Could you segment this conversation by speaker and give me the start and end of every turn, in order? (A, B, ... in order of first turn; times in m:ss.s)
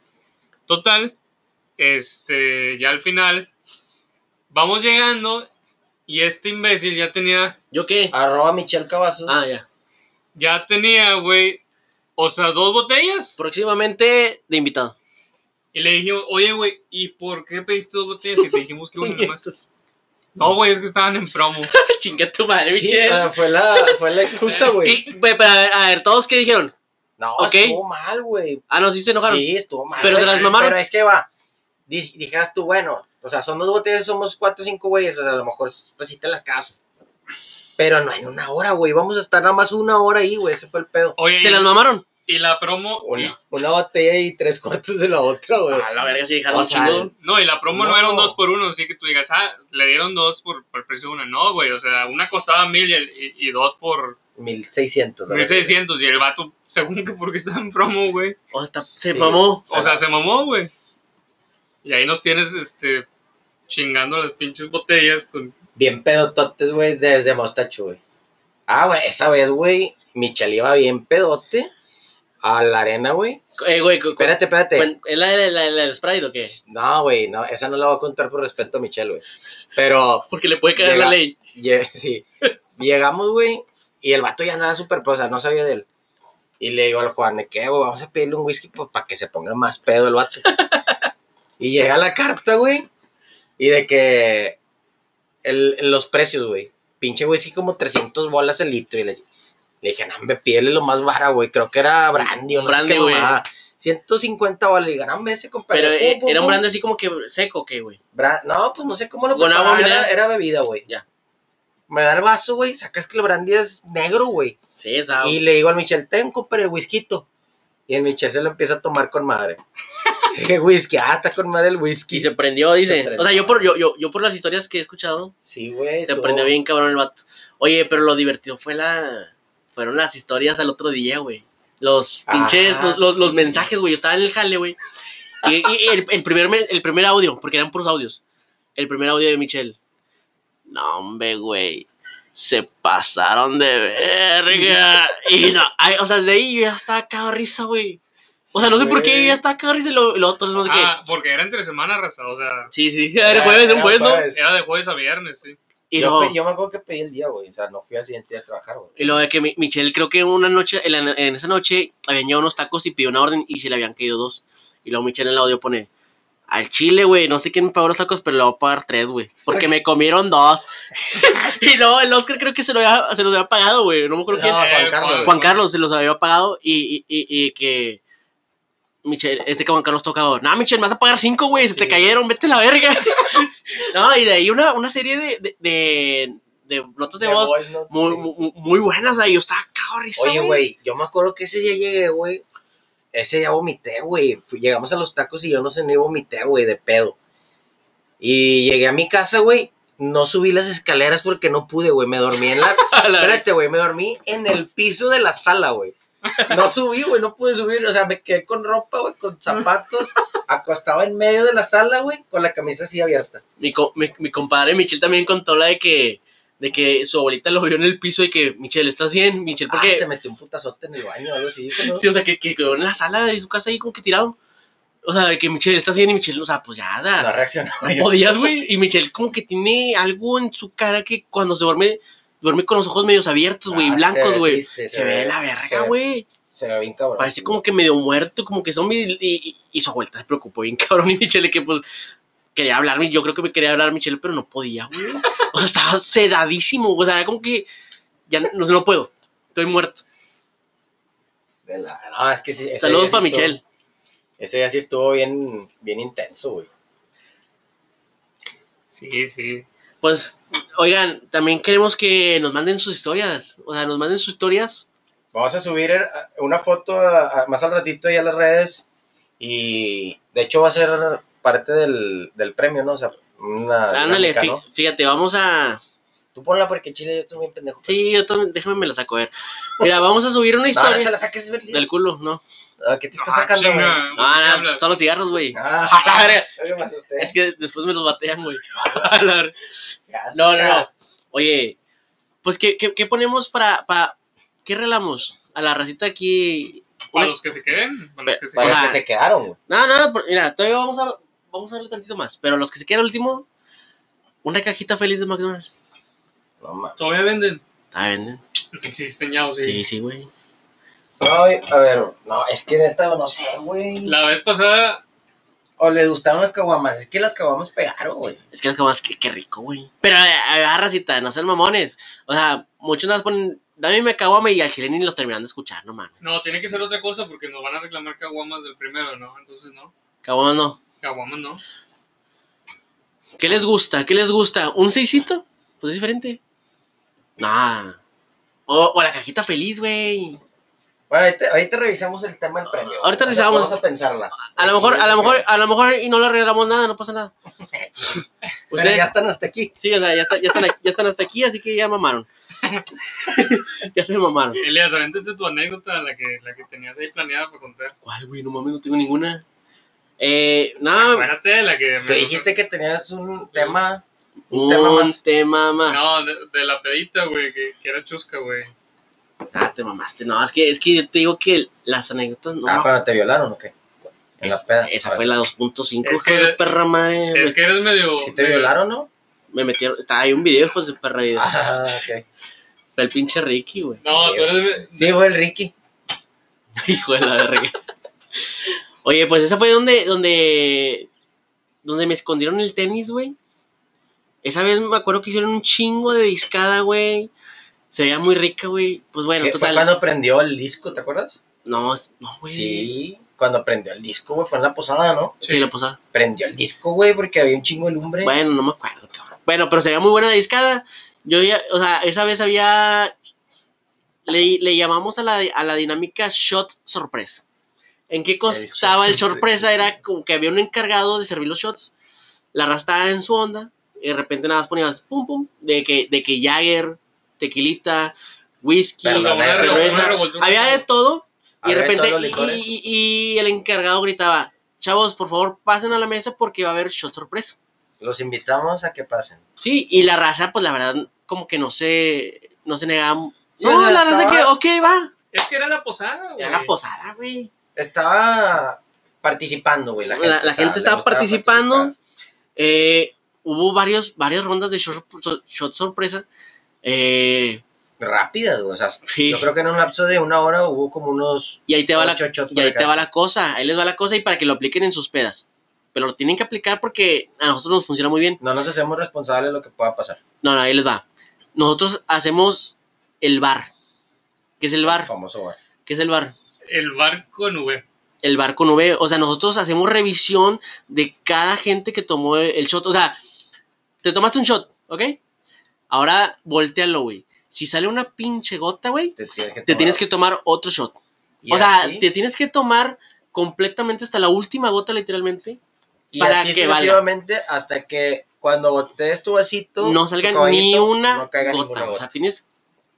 0:00.7-0:01.1 A
0:01.8-0:03.5 A
0:04.5-0:05.5 A
0:06.1-0:07.6 A
0:07.7-0:08.1 B
0:08.1-0:09.4 C
0:09.3-0:09.6 B
0:10.4-0:11.6 A
0:12.2-0:13.4 A
0:13.4-0:14.9 B
0:15.7-0:19.4 A
0:18.4-0:19.7 B
0:20.4-0:21.7 A
0:21.7-0:26.7 B
0:22.7-0:25.0 C
0:24.4-0:24.9 A
0:27.2-0:28.6 C
0:27.4-0:27.8 B
0:28.7-0:29.4 B
0:29.1-0:31.3 C
0:29.9-0:30.6 A
0:30.0-0:30.8 B
0:31.9-0:36.8 C
0:37.8-0:41.2 C
0:41.2-0:41.7 A
0:41.3-0:42.0 B
0:42.3-0:43.4 A
0:43.0-0:45.9 C
0:45.7-0:47.1 B
0:46.5-0:47.1 C
0:47.2-0:54.2 A
0:47.7-0:48.4 C
0:54.4-0:55.8 C
0:55.3-0:58.4 A
0:58.5-0:59.7 B
0:59.1-1:00.0 C
0:59.7-1:00.7 A
1:01.8-1:03.1 A
1:03.7-1:05.5 A
1:05.8-1:08.0 C
1:08.7-1:11.7 C
1:12.4-1:13.4 C
1:13.6-1:16.6 B
1:14.2-1:14.9 C
1:16.4-1:19.2 C
1:19.8-1:22.3 C
1:20.3-1:21.4 B
1:22.8-1:25.9 C
1:26.6-1:30.5 C
1:30.5-1:31.0 B
1:31.6-1:32.9 C
1:33.6-1:34.6 C
1:35.4-1:39.2 C
1:39.8-1:46.6 C
1:42.5-1:43.4 B
1:45.7-1:48.0 B
1:48.1-1:50.9 C
1:49.3-1:50.1 B
1:51.9-1:54.6 C
1:54.8-1:55.4 B
1:55.2-1:57.3 C
1:57.9-1:59.6 C
2:00.3-2:03.6 C
2:02.1-2:05.3 B
2:05.4-2:06.5 C
2:06.0-2:14.8 B
2:12.3-2:13.7 C
2:15.4-2:18.2 B
2:18.8-2:19.8 B
2:20.7-2:28.0 B
2:28.4-2:29.4 C
2:28.5-2:30.9 B
2:30.6-2:32.7 A
2:32.7-2:34.3 B
2:33.2-2:34.4 C
2:34.3-2:35.6 A
2:35.9-2:36.4 B
2:36.0-2:39.2 C
2:39.0-2:45.9 B
2:46.5-2:54.7 B
2:54.3-2:55.4 C
2:54.6-2:55.6 A
2:55.2-2:58.0 B
2:59.0-3:10.6 B
3:01.5-3:02.1 C
3:07.2-3:08.3 C
3:10.2-3:12.4 C
3:13.1-3:17.2 C
3:18.2-3:33.4 C
3:22.6-3:23.4 B
3:33.6-3:40.1 B
3:39.7-3:42.1 C
3:41.8-3:44.4 B
3:45.0-3:47.3 B
3:47.2-3:48.5 C
3:47.9-3:56.3 B
3:53.7-3:55.9 C
3:56.5-3:57.6 C
3:57.2-4:01.8 B
4:02.5-4:07.7 B
4:08.3-4:10.0 B
4:11.6-4:13.6 C
4:12.8-4:13.6 B
4:14.4-4:16.7 C
4:18.9-4:19.6 A
4:20.0-4:24.8 B
4:25.3-4:28.9 C
4:29.4-4:34.6 C
4:33.9-4:35.8 B
4:36.4-4:38.0 C
4:37.9-4:41.1 B
4:40.7-4:41.9 C
4:41.7-4:42.4 B
4:42.8-4:44.0 C
4:43.2-4:44.9 A
4:44.2-4:46.5 B
4:45.5-4:47.3 C
4:47.2-4:49.5 B
4:50.1-4:50.9 C
4:50.3-4:51.8 B
4:52.4-4:57.4 B
4:57.1-4:58.8 A
4:58.2-4:59.0 B
4:58.6-4:59.6 C
4:59.7-5:03.5 B
5:04.4-5:05.8 B
5:06.6-5:07.0 C
5:07.0-5:07.6 A
5:07.9-5:08.4 B
5:08.7-5:09.8 A
5:09.6-5:10.3 B
5:11.2-5:14.2 C
5:14.0-5:15.0 A
5:15.8-5:18.4 C
5:18.5-5:26.2 B
5:26.2-5:29.9 A
5:30.2-5:30.8 B
5:31.0-5:31.6 A
5:33.4-5:36.4 B
5:37.4-5:38.0 B
5:38.7-5:40.4 B
5:41.1-5:45.4 C
5:43.0-5:43.8 B
5:44.5-5:47.3 B
5:47.7-5:49.8 C
5:48.7-5:49.1 B
5:49.8-5:52.3 B
5:53.2-5:54.6 B
5:54.6-5:57.9 A
5:58.0-5:59.4 B
6:00.2-6:01.3 B
6:00.9-6:02.5 A
6:02.1-6:05.2 C
6:04.5-6:06.1 B
6:05.9-6:08.7 A
6:09.5-6:12.9 B
6:12.6-6:13.7 C
6:14.4-6:15.3 C
6:14.4-6:17.6 B
6:16.0-6:16.6 A
6:17.3-6:18.7 A
6:18.2-6:19.1 C
6:19.5-6:21.6 B
6:21.4-6:22.2 C
6:23.0-6:24.0 B
6:24.0-6:25.2 A
6:24.0-6:25.7 C
6:26.8-6:27.7 B
6:29.0-6:31.1 B
6:31.8-6:33.4 B
6:34.4-6:37.3 B
6:37.9-6:39.9 B
6:39.4-6:41.4 C
6:41.6-6:42.9 B
6:42.4-6:45.4 C
6:45.4-6:46.0 B
6:46.1-6:48.3 C
6:48.2-6:53.2 B
6:54.2-6:57.4 B
6:58.1-7:01.9 B
6:58.5-7:00.0 C
7:02.5-7:17.6 B
7:09.0-7:10.2 C
7:09.1-7:10.8 A
7:11.6-7:12.7 C
7:18.0-7:19.4 C
7:19.6-7:25.1 B
7:23.6-7:24.5 C
7:25.3-7:26.7 A
7:26.4-7:27.5 B
7:27.8-7:31.9 C
7:30.1-7:31.9 B
7:32.6-7:36.2 B
7:36.8-7:37.6 B
7:38.0-7:43.0 C
7:39.1-7:39.5 B
7:41.7-7:48.4 B
7:48.4-7:50.2 C
7:50.4-7:53.7 B
7:54.6-7:55.1 B
7:54.8-7:55.6 C
7:55.8-7:56.4 B
7:56.6-7:57.8 A
7:58.2-8:03.2 B
8:04.0-8:05.2 B
8:05.9-8:09.2 B
8:09.2-8:10.0 C
8:09.7-8:11.0 B
8:11.4-8:12.1 C
8:11.5-8:15.6 B
8:16.1-8:22.1 C
8:16.2-8:17.0 B
8:19.8-8:22.4 B